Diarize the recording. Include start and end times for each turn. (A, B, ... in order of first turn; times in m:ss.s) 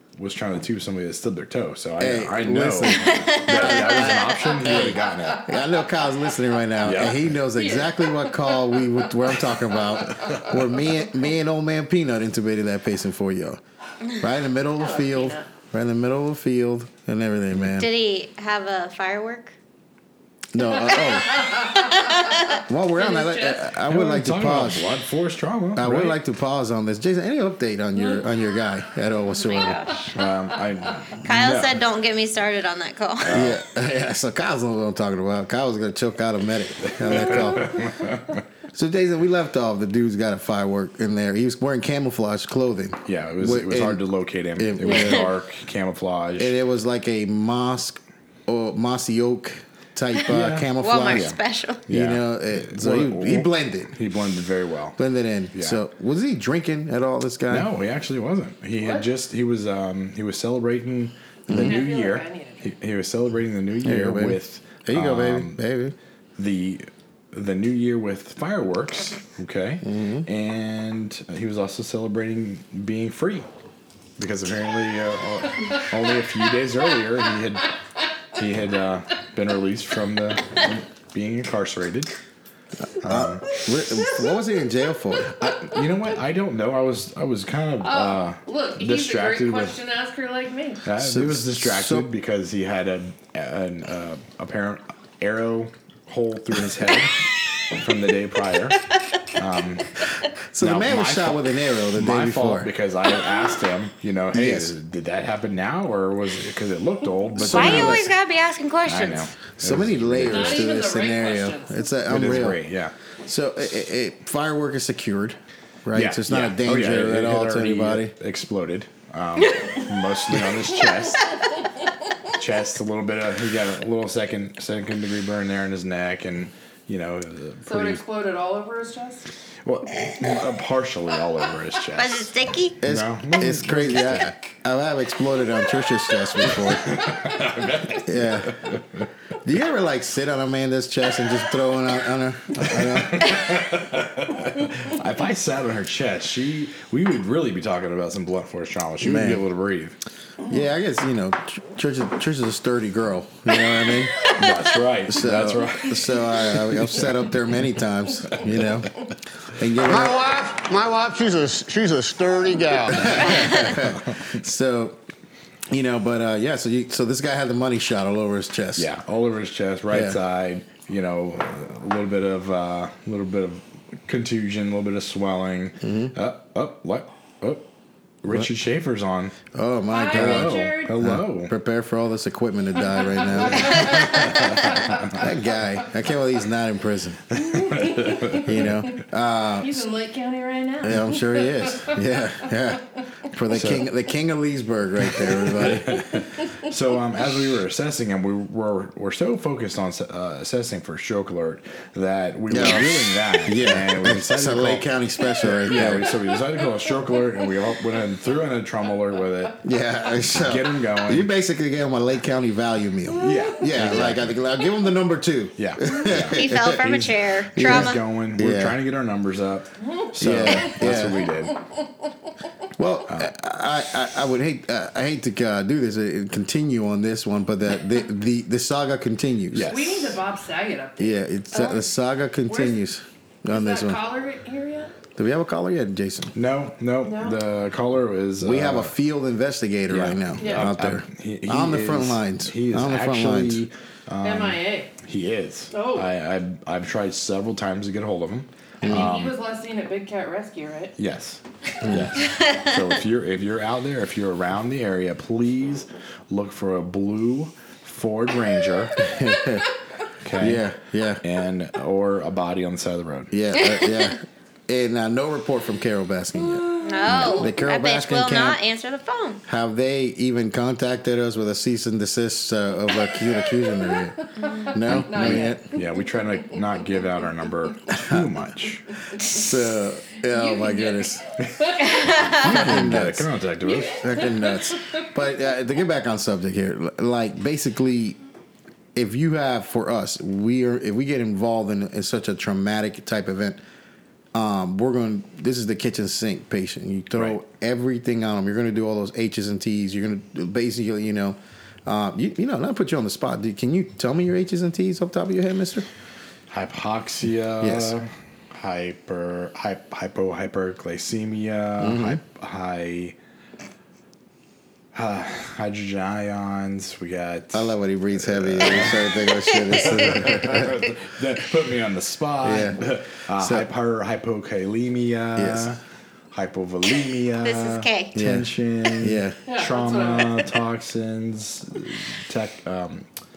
0:00.2-0:05.5 A
0:02.0-0:13.6 B
0:02.9-0:04.4 C
0:06.8-0:07.4 A
0:07.5-0:09.0 D
0:14.2-0:17.9 B
0:14.8-0:15.4 D
0:17.7-0:19.6 C
0:20.5-0:21.7 B
0:21.6-0:22.6 C
0:22.6-0:24.9 B
0:23.0-0:23.6 D
0:23.9-0:26.2 A
0:25.8-0:29.9 B
0:29.4-0:30.1 C
0:30.1-0:31.7 A
0:31.2-0:33.4 C
0:33.2-0:33.6 A
0:33.3-0:37.9 B
0:36.9-0:38.4 A
0:38.7-0:45.3 B
0:43.1-0:46.6 A
0:46.4-0:54.0 B
0:50.3-0:51.4 A
0:50.8-0:51.9 C
0:51.9-0:55.0 A
0:55.0-0:57.7 B
0:57.5-1:05.6 A
1:01.5-1:01.8 B
1:01.5-1:02.7 D
1:03.8-1:06.0 B
1:06.4-1:13.5 A
1:09.8-1:10.3 B
1:14.2-1:17.7 A
1:18.4-1:22.1 A
1:23.0-1:25.5 B
1:23.0-1:23.5 A
1:25.4-1:29.8 A
1:27.8-1:30.8 D
1:30.8-1:37.2 A
1:31.0-1:32.1 B
1:37.7-1:40.0 A
1:40.5-1:42.7 B
1:40.6-1:48.1 A
1:44.3-1:44.7 B
1:47.4-1:48.1 B
1:47.4-1:49.3 C
1:48.9-1:50.8 A
1:49.6-1:52.6 B
1:50.2-1:51.9 D
1:52.1-1:52.9 A
1:53.3-1:58.1 B
1:55.9-2:01.3 A
2:02.3-2:08.0 A
2:07.6-2:09.3 D
2:09.6-2:12.3 A
2:12.0-2:12.8 C
2:12.8-2:17.0 B
2:12.8-2:14.4 A
2:16.4-2:19.1 A
2:18.0-2:18.6 B
2:19.4-2:23.5 B
2:22.6-2:30.0 A
2:29.0-2:29.4 B
2:30.5-2:34.3 B
2:34.3-2:37.1 A
2:35.1-2:40.2 B
2:39.8-2:43.4 E
2:42.9-2:45.0 B
2:43.3-2:43.8 C
2:43.8-2:44.2 A
2:45.7-2:48.9 B
2:48.8-2:57.7 A
2:49.9-2:50.2 B
2:55.8-2:56.1 B
2:58.2-2:59.4 A
2:59.5-3:07.2 B
2:59.9-3:01.0 D
3:00.1-3:01.5 A
3:03.4-3:04.4 D
3:03.4-3:05.2 A
3:07.4-3:08.4 A
3:07.5-3:08.7 D
3:08.4-3:09.8 B
3:09.6-3:12.0 D
3:10.8-3:16.2 B
3:13.5-3:13.8 A
3:15.3-3:24.9 A
3:22.5-3:26.1 B
3:25.4-3:29.6 A
3:29.6-3:38.8 B
3:30.3-3:31.3 A
3:33.2-3:34.4 A
3:35.6-3:36.9 A
3:36.3-3:38.0 C
3:37.6-3:41.6 A
3:40.2-3:41.3 B
3:42.8-3:49.8 B
3:49.5-3:50.2 A
3:49.7-3:51.8 D
3:51.0-3:54.0 B
3:52.5-3:52.9 D
3:53.5-3:54.9 D
3:55.2-3:56.4 B
3:56.4-3:58.9 A
3:57.0-3:57.4 D
3:58.4-4:03.6 B
3:59.9-4:09.4 A
4:00.4-4:00.7 D
4:04.2-4:04.9 D
4:05.7-4:06.1 D
4:08.8-4:09.1 B
4:08.9-4:11.0 D
4:11.0-4:19.1 A
4:11.8-4:12.1 B
4:19.0-4:19.7 B
4:20.2-4:20.6 A
4:20.4-4:21.2 B
4:21.2-4:23.4 A
4:23.3-4:28.6 B
4:23.6-4:24.1 C
4:26.8-4:27.3 D
4:26.8-4:29.4 C
4:29.4-4:35.7 B
4:34.4-4:36.9 D
4:34.4-4:34.7 C
4:35.0-4:39.0 A
4:38.0-4:38.3 B
4:39.3-4:41.2 B
4:40.2-4:42.0 D
4:41.4-4:44.2 A
4:42.1-4:42.4 C
4:42.3-4:43.3 B
4:43.6-4:45.1 D
4:44.0-4:48.2 B
4:49.0-4:53.6 B
4:54.3-5:05.9 B
5:06.5-5:13.1 A
5:07.6-5:08.0 B
5:11.8-5:12.2 B
5:14.9-5:19.2 A
5:17.5-5:20.8 B
5:19.6-5:20.2 C
5:19.8-5:25.8 A
5:22.4-5:23.7 B
5:25.4-5:25.8 B
5:26.3-5:33.1 A
5:27.4-5:28.2 C
5:28.1-5:29.4 B
5:29.5-5:30.5 D